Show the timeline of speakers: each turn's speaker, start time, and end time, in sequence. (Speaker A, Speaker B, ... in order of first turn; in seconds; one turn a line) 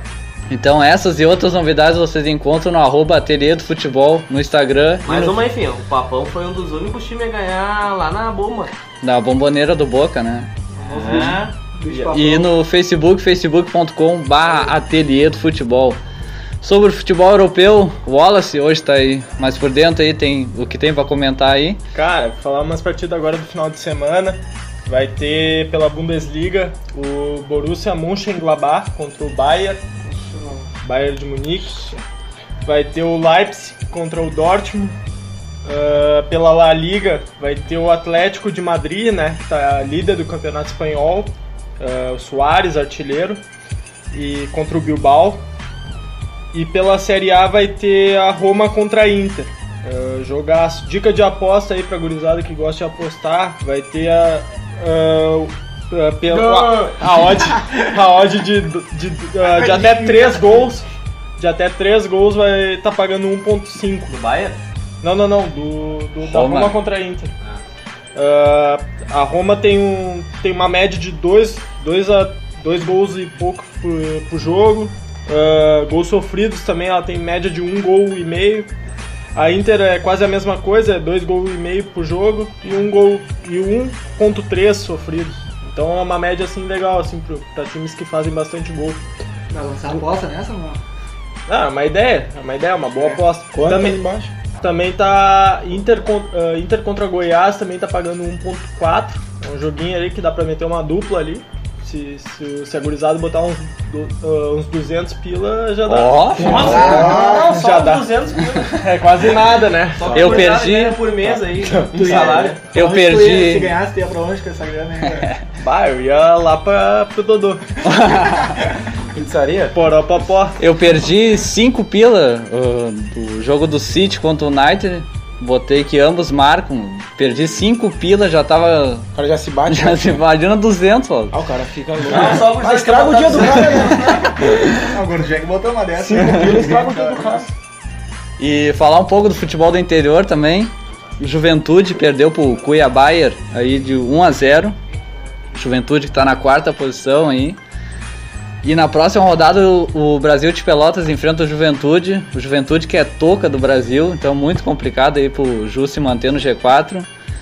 Speaker A: 0.5-5.4
Speaker B: 5.0-8.7
Speaker A: 9.0-16.0
Speaker C: 10.8-12.5
Speaker B: 10.9-11.5
Speaker A: 16.6-21.8
Speaker D: 21.9-29.8
Speaker C: 30.1-30.7
Speaker D: 30.8-32.0
Speaker D: 32.6-35.0
Speaker D: 35.6-43.4
Speaker D: 44.1-45.4
Speaker D: 46.5-64.1
Speaker B: 56.3-56.8
Speaker C: 59.4-60.7
Speaker B: 64.1-64.6
Speaker D: 65.0-67.3
Speaker A: 66.2-66.8
Speaker D: 68.1-78.7
Speaker D: 79.3-89.0
Speaker C: 89.5-90.8
Speaker D: 91.5-94.0
Speaker E: 93.5-94.3
Speaker D: 94.6-110.5
Speaker A: 105.8-106.8
Speaker B: 106.3-109.4
Speaker E: 106.4-107.4
Speaker C: 106.5-107.5
Speaker B: 109.9-112.6
Speaker A: 110.1-111.0
Speaker E: 110.1-110.4
Speaker D: 111.5-112.5
Speaker C: 111.9-115.3
Speaker A: 112.7-113.8
Speaker D: 115.6-117.8
Speaker A: 117.8-118.6
Speaker E: 119.1-119.8
Speaker D: 119.7-120.6
Speaker A: 120.6-129.1
Speaker E: 129.2-130.2
Speaker A: 129.7-131.3
Speaker E: 131.3-134.4
Speaker B: 132.1-134.4
Speaker C: 134.9-137.3
Speaker E: 136.0-137.5
Speaker A: 138.4-144.8
Speaker A: 145.5-147.6
Speaker A: 148.6-157.1